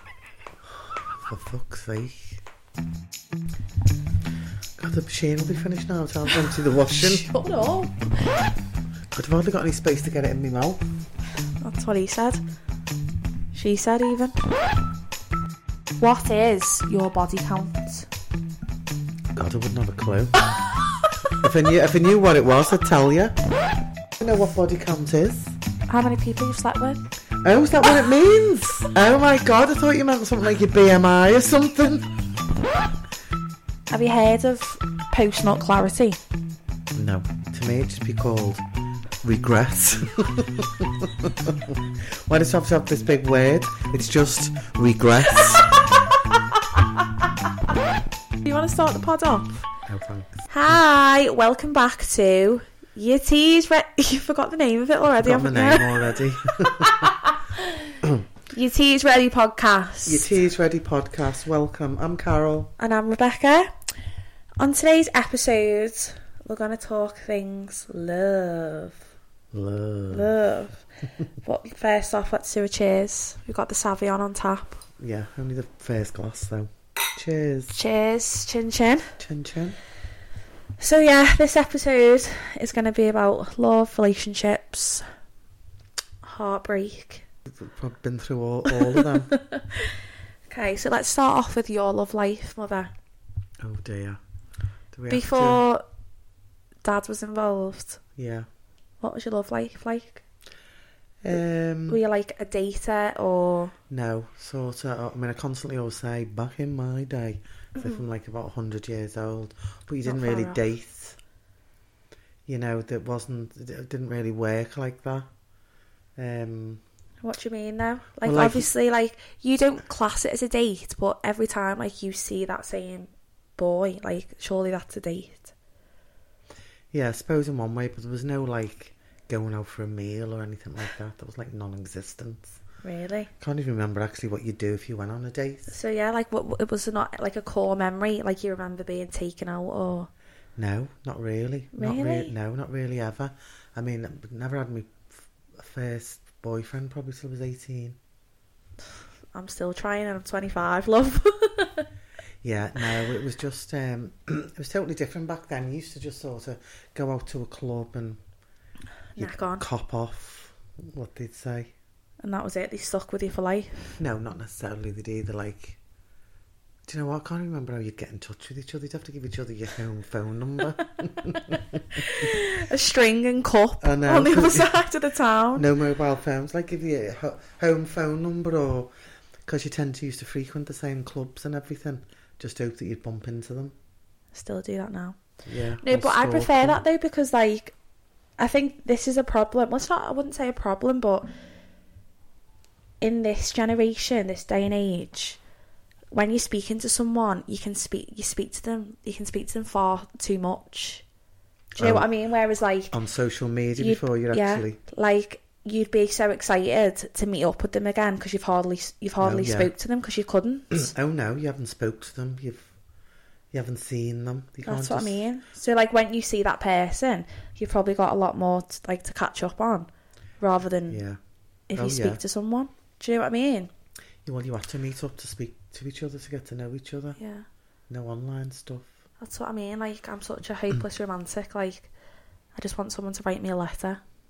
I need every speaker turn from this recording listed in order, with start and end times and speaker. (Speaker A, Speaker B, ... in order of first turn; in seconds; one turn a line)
Speaker A: 1.1-2.4
Speaker A: 4.8-7.3
Speaker B: 6.9-8.0
Speaker A: 9.1-10.8
Speaker B: 11.6-12.4
Speaker B: 13.5-14.4
Speaker B: 16.0-18.1
Speaker A: 19.3-20.5
Speaker A: 21.4-23.4
Speaker A: 24.2-25.6
Speaker B: 25.9-27.1
Speaker A: 27.4-32.1
Speaker B: 33.9-36.2
Speaker A: 36.9-38.6
Speaker A: 39.2-45.8
Speaker B: 46.7-47.3
Speaker B: 48.4-49.6
Speaker A: 49.9-50.5
Speaker B: 50.5-60.3
Speaker A: 55.2-57.1
Speaker A: 60.0-62.7
Speaker B: 62.8-63.7
Speaker B: 64.6-69.0
Speaker A: 69.5-70.3
Speaker B: 70.1-70.8
Speaker B: 71.4-74.8
Speaker A: 75.0-77.7
Speaker B: 77.7-79.1
Speaker A: 79.2-79.8
Speaker B: 80.8-85.0
Speaker B: 86.2-87.2
Speaker A: 87.5-89.3
Speaker B: 88.7-90.0
Speaker B: 90.5-92.9
Speaker A: 93.6-94.2
Speaker A: 94.9-95.6
Speaker B: 95.1-95.8
Speaker B: 96.8-98.0
Speaker A: 98.2-98.5
Speaker B: 99.0-100.2
Speaker A: 101.2-102.0
Speaker B: 101.9-103.7
Speaker A: 103.9-111.2
Speaker B: 110.0-110.6
Speaker A: 112.5-115.3
Speaker A: 116.2-116.8
Speaker B: 117.2-125.5
Speaker A: 118.2-118.7
Speaker A: 126.9-132.6
Speaker B: 132.8-133.3
Speaker A: 133.4-135.7
Speaker B: 135.7-140.1
Speaker A: 140.6-148.0
Speaker B: 141.7-142.3
Speaker B: 149.3-151.9
Speaker A: 152.4-158.2
Speaker B: 159.1-159.6
Speaker A: 159.2-161.7
Speaker B: 162.2-164.0
Speaker A: 164.0-165.8
Speaker A: 166.9-172.1
Speaker B: 171.9-175.6
Speaker A: 173.8-174.8
Speaker A: 175.5-178.9
Speaker A: 179.4-183.7
Speaker B: 184.3-185.2
Speaker A: 185.4-186.8
Speaker B: 185.8-187.7
Speaker B: 188.4-191.3
Speaker B: 193.0-195.4
Speaker B: 196.1-201.0
Speaker A: 201.8-202.1
Speaker B: 201.8-202.9
Speaker A: 202.9-204.8
Speaker B: 203.8-210.9
Speaker A: 209.2-209.7
Speaker A: 210.7-212.7
Speaker A: 213.5-215.2
Speaker B: 214.7-219.9
Speaker B: 220.4-221.0
Speaker A: 220.9-221.2
Speaker B: 221.7-223.7
Speaker A: 221.7-222.2
Speaker A: 224.2-227.2
Speaker B: 227.2-227.4
Speaker A: 227.9-228.9
Speaker B: 229.2-231.9
Speaker B: 232.5-234.0